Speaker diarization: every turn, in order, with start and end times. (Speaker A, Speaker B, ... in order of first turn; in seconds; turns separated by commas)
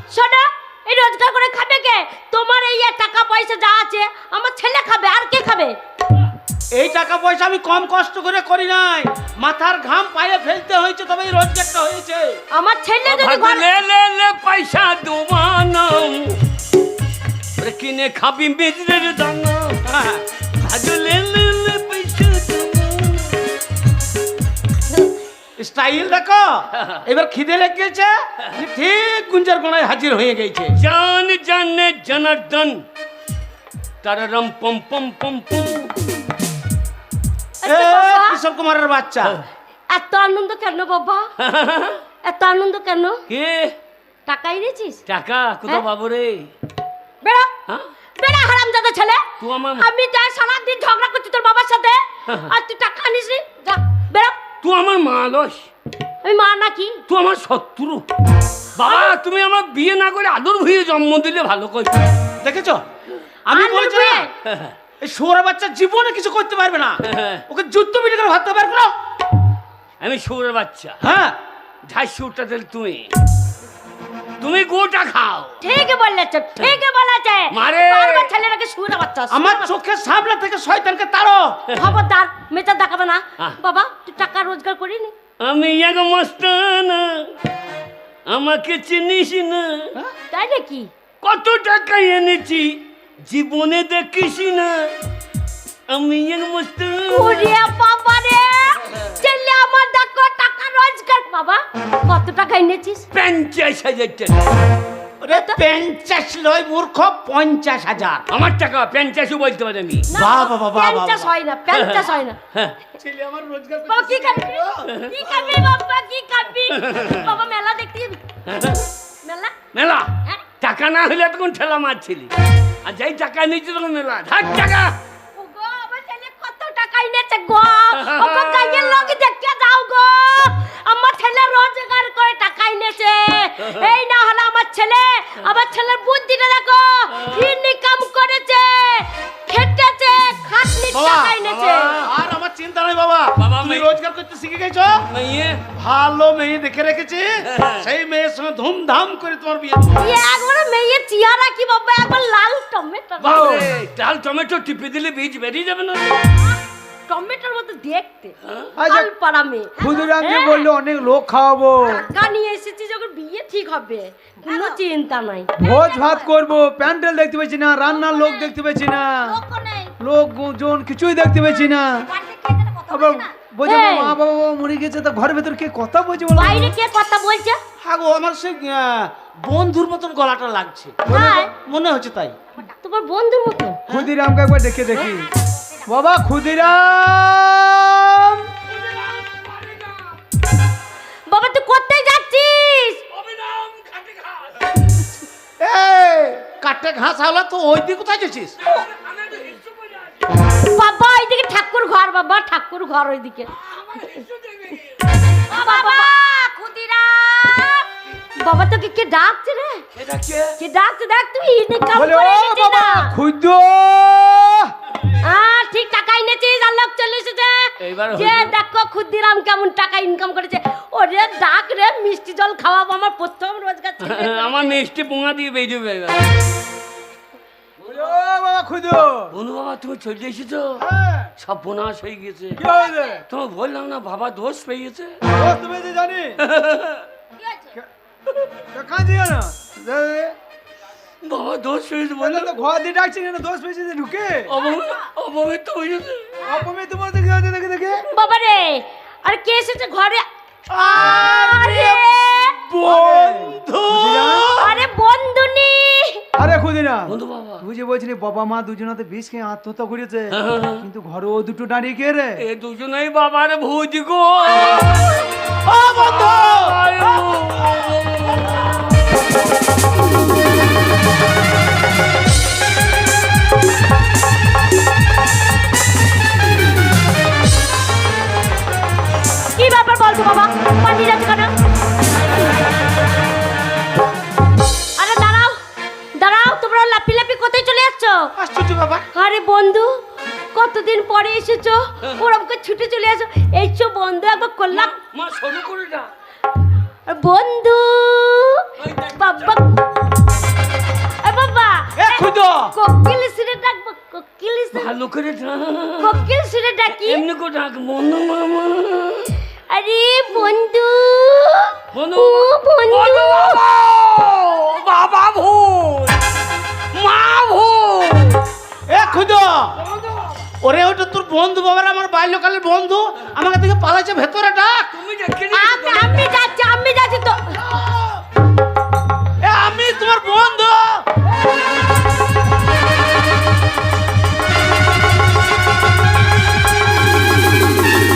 Speaker A: 0.1-5.8, Speaker B: 6.7-12.4, Speaker A: 12.5-13.7, Speaker C: 13.1-16.4, Speaker C: 17.6-19.8, Speaker B: 19.9-20.2, Speaker C: 20.6-23.4, Speaker B: 25.6-30.8, Speaker C: 30.8-32.8, Speaker C: 34.0-36.2, Speaker A: 37.6-38.4, Speaker B: 37.6-39.4, Speaker A: 39.9-41.3, Speaker C: 41.4-42.0, Speaker A: 42.2-43.2, Speaker C: 43.3-43.8, Speaker A: 44.3-45.0, Speaker C: 45.1-46.5, Speaker A: 47.2-47.5, Speaker A: 48.2-54.4, Speaker C: 49.4-49.9, Speaker C: 52.3-52.5, Speaker C: 54.6-55.7, Speaker A: 56.2-57.0, Speaker C: 57.1-58.0, Speaker C: 58.8-62.1, Speaker A: 58.8-59.1, Speaker B: 62.4-62.8, Speaker B: 63.5-64.3, Speaker A: 63.5-64.3, Speaker C: 64.4-64.7, Speaker B: 65.0-68.9, Speaker C: 67.1-67.4, Speaker C: 70.0-71.0, Speaker B: 71.0-71.4, Speaker C: 71.9-73.1, Speaker C: 74.4-75.6, Speaker A: 75.6-79.7, Speaker C: 77.5-78.3, Speaker B: 79.3-81.6, Speaker A: 81.8-85.1, Speaker C: 85.4-87.3, Speaker C: 88.3-90.0, Speaker A: 90.3-90.9, Speaker C: 91.2-94.9, Speaker C: 95.9-97.5, Speaker A: 97.1-103.1, Speaker C: 103.1-104.4, Speaker B: 105.2-108.3, Speaker A: 105.3-105.6, Speaker C: 108.3-110.1, Speaker A: 110.1-112.4, Speaker B: 110.2-111.3, Speaker C: 111.7-112.8, Speaker B: 113.0-115.6, Speaker A: 113.9-118.2, Speaker C: 114.9-115.1, Speaker C: 116.7-117.2, Speaker C: 118.5-118.9, Speaker A: 119.2-119.5, Speaker C: 119.7-125.0, Speaker A: 125.3-142.1, Speaker C: 127.9-129.2, Speaker C: 133.6-134.0, Speaker C: 137.2-137.5, Speaker B: 140.9-141.4, Speaker C: 141.4-142.0, Speaker B: 141.9-145.1, Speaker C: 143.4-143.9, Speaker C: 145.1-145.6, Speaker B: 145.8-150.2, Speaker C: 147.4-147.9, Speaker A: 150.0-153.7, Speaker C: 153.2-156.3, Speaker D: 153.2-153.7, Speaker A: 157.1-160.7, Speaker C: 158.4-158.7, Speaker D: 158.8-159.1, Speaker D: 159.8-162.0, Speaker A: 161.8-165.7, Speaker D: 165.6-169.4, Speaker A: 167.9-168.5, Speaker A: 169.2-169.9, Speaker D: 170.0-172.1, Speaker A: 172.3-172.8, Speaker D: 172.9-176.7, Speaker A: 173.6-174.2, Speaker A: 176.3-177.6, Speaker B: 177.8-182.4, Speaker A: 181.1-181.5, Speaker D: 181.1-181.5, Speaker A: 182.6-183.8, Speaker D: 183.9-185.3, Speaker D: 185.9-188.5, Speaker C: 188.7-190.2, Speaker A: 191.3-193.0, Speaker C: 193.1-194.8, Speaker B: 195.6-198.5, Speaker C: 198.6-200.3, Speaker A: 200.6-203.5, Speaker C: 203.5-205.0, Speaker A: 205.5-209.8, Speaker C: 209.9-210.6, Speaker A: 210.6-213.1, Speaker D: 211.9-214.7, Speaker A: 215.2-224.8, Speaker C: 217.8-218.5, Speaker C: 224.0-226.3, Speaker D: 227.8-229.3, Speaker C: 229.3-230.8, Speaker D: 230.8-231.3, Speaker C: 231.4-232.6, Speaker D: 232.6-233.2, Speaker C: 233.3-235.2, Speaker D: 235.3-236.4, Speaker C: 236.4-237.1, Speaker D: 238.7-240.4, Speaker C: 241.2-242.6, Speaker D: 242.2-244.5, Speaker C: 244.5-246.4, Speaker D: 246.4-248.1, Speaker A: 248.1-250.3, Speaker B: 250.7-252.2, Speaker A: 251.0-252.6, Speaker B: 252.7-254.7, Speaker D: 252.8-254.6, Speaker A: 254.6-256.2, Speaker D: 256.4-262.4, Speaker C: 257.1-257.6, Speaker C: 260.3-260.9, Speaker C: 262.4-265.3, Speaker B: 265.6-266.8, Speaker C: 265.9-268.7, Speaker A: 279.6-281.5, Speaker A: 285.0-285.6, Speaker A: 286.1-288.3, Speaker B: 288.4-289.1, Speaker A: 289.1-290.0, Speaker A: 290.5-294.9, Speaker C: 294.7-296.1, Speaker A: 297.1-298.6, Speaker C: 298.8-299.5, Speaker A: 299.2-299.8, Speaker A: 301.2-304.9, Speaker B: 302.0-302.8, Speaker C: 304.7-306.3, Speaker A: 306.0-307.2, Speaker C: 306.9-309.4, Speaker A: 309.7-313.6, Speaker C: 311.9-316.2, Speaker C: 316.9-318.4, Speaker B: 318.9-319.8, Speaker C: 319.8-320.5, Speaker B: 320.6-324.9, Speaker C: 324.9-326.3, Speaker A: 325.5-327.6, Speaker B: 327.6-328.2, Speaker B: 329.4-331.1